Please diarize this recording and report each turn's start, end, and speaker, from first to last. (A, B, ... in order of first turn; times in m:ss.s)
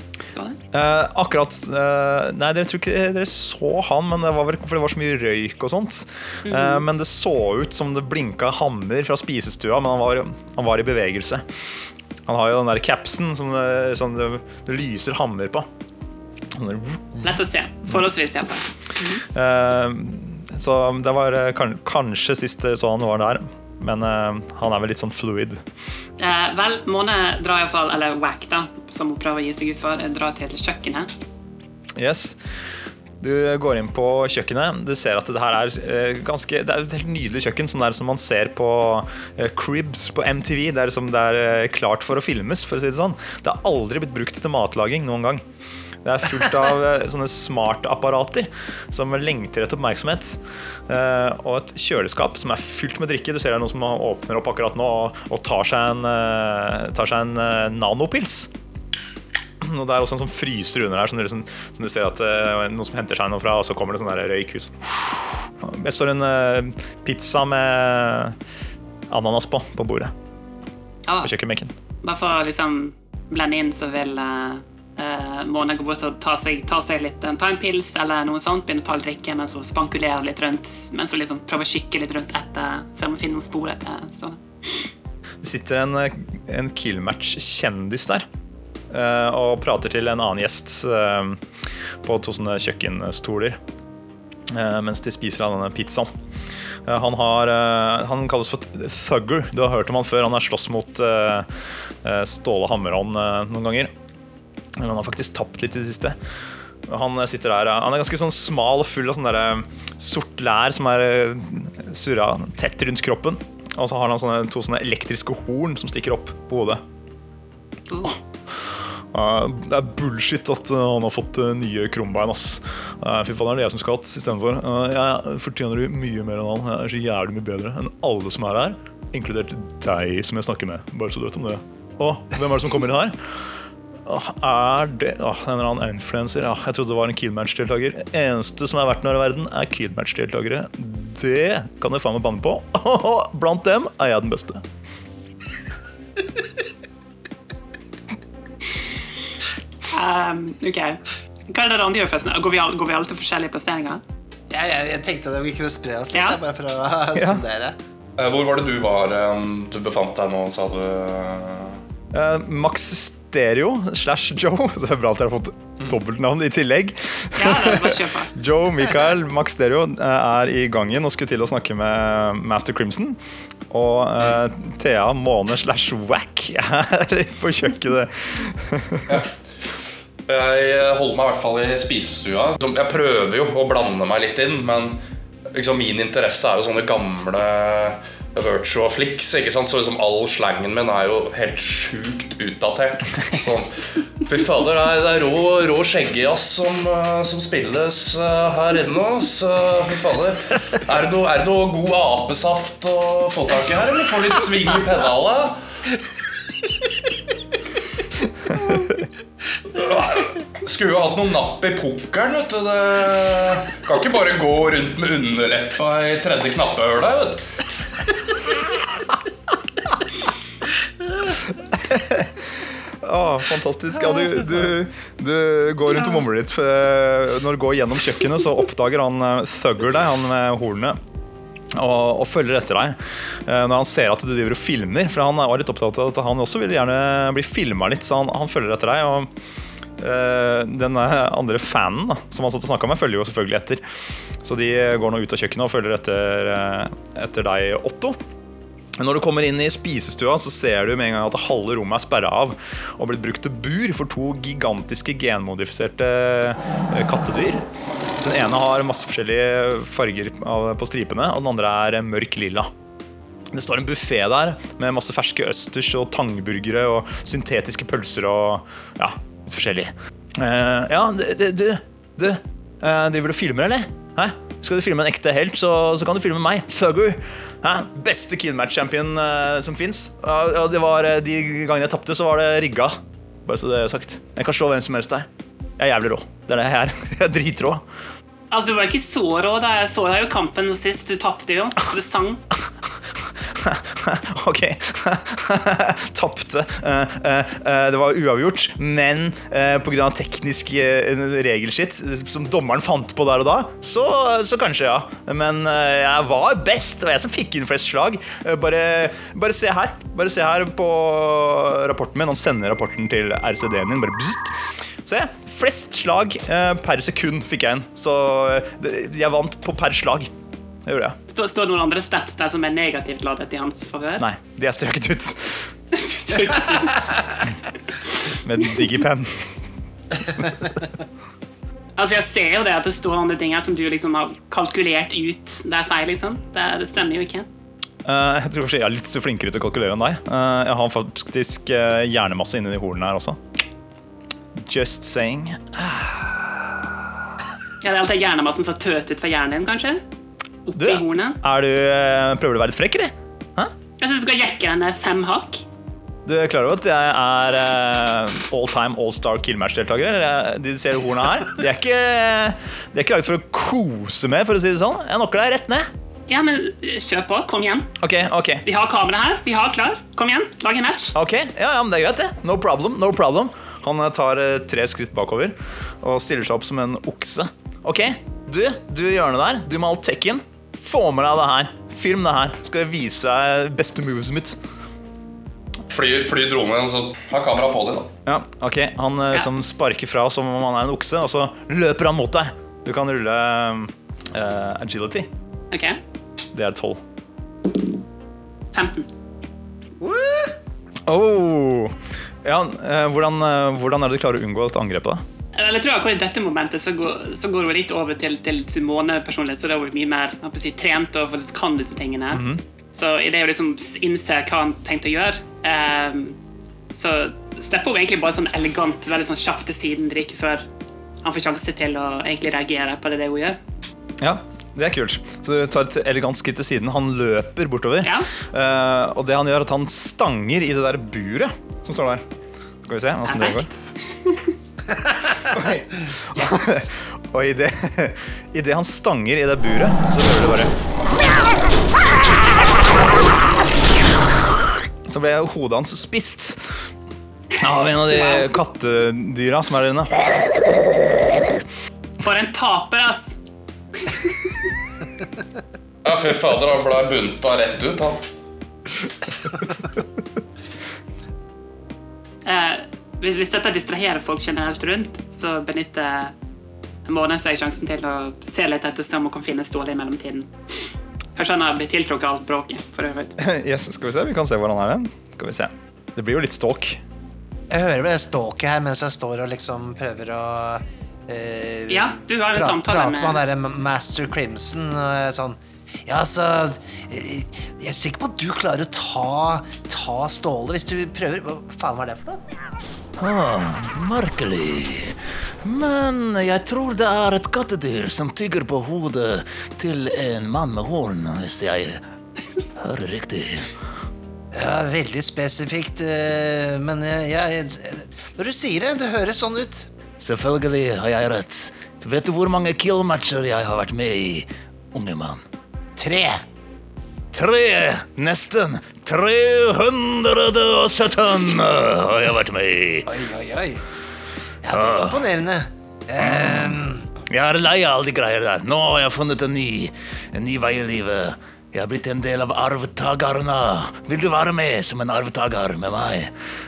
0:00.3-0:00.6 A
0:00.7-0:11.4 B
0:06.4-0:06.8 A
0:12.3-0:15.6 B
0:16.5-0:17.2 B
0:17.2-0:19.2 A
0:19.3-0:25.6 B
0:26.2-0:31.1 A
0:32.0-0:32.4 B
0:33.2-0:45.4 B
0:46.0-0:58.5 B
0:59.6-1:08.4 B
1:09.1-1:10.1 B
1:11.2-1:11.7 B
1:12.0-1:24.9 A
1:25.4-1:28.2 B
1:28.9-1:31.4 B
1:32.0-1:33.6 B
1:34.5-1:36.1 B
1:36.8-1:41.5 B
1:42.0-1:43.9 B
1:44.8-1:46.2 B
1:46.9-1:56.8 B
1:57.9-1:58.2 A
1:58.0-2:13.2 B
2:14.0-2:24.6 B
2:29.9-2:34.0 A
2:34.5-2:37.8 C
2:36.1-2:36.4 A
2:37.2-2:37.4 B
2:38.2-2:41.8 D
2:42.1-2:53.2 B
2:47.4-2:48.3 A
2:53.7-2:59.2 B
2:59.1-2:59.3 D
3:00.3-3:05.0 D
3:05.5-3:25.6 D
3:29.7-3:37.4 D
3:41.5-3:51.0 B
3:51.8-3:59.3 B
4:00.0-4:03.8 B
4:04.4-4:08.2 B
4:09.0-4:17.6 B
4:18.2-4:22.7 B
4:23.5-4:45.2 B
4:45.8-4:47.8 B
4:48.5-4:52.4 A
4:53.4-5:20.3 B
5:20.8-5:21.2 B
5:21.3-5:24.3 A
5:24.2-5:25.7 B
5:25.9-5:27.0 A
5:28.4-5:29.6 B
5:32.0-5:37.5 A
5:38.0-5:43.4 B
5:44.5-5:47.0 B
5:47.8-5:50.0 A
5:50.6-5:51.4 A
5:50.8-5:53.7 B
5:54.0-5:55.6 A
5:56.2-6:05.9 B
6:06.3-6:07.9 A
6:08.0-6:08.6 B
6:08.6-6:11.1 A
6:11.1-6:24.6 B
6:25.9-6:28.1 D
6:28.2-6:35.3 B
6:35.7-6:36.0 A
6:36.5-6:37.0 B
6:38.7-6:39.1 A
6:40.0-6:40.5 C
6:41.1-6:45.2 B
6:45.5-6:56.4 A
6:52.3-6:52.6 B
6:56.9-7:00.6 A
7:01.2-7:03.6 A
7:04.2-7:12.2 B
7:08.0-7:08.3 A
7:12.8-7:13.7 B
7:13.2-7:14.5 A
7:15.5-7:20.7 B
7:16.3-7:16.8 C
7:25.1-7:26.6 B
7:27.6-7:30.3 B
7:28.1-7:28.4 A
7:32.2-7:33.4 A
7:34.0-7:34.5 A
7:36.0-7:38.2 D
7:42.4-7:46.3 A
7:47.0-7:50.5 A
7:51.4-7:53.4 A
7:53.4-7:57.0 B
7:57.7-8:12.4 C
8:01.9-8:03.4 A
8:13.2-8:22.0 E
8:22.8-8:23.7 E
8:24.5-8:29.9 C
8:30.2-8:35.4 E
8:36.0-8:36.4 C
8:37.3-8:43.1 E
8:43.1-8:43.8 C
8:44.6-8:47.1 C
8:44.7-8:45.2 E
8:46.2-8:56.3 E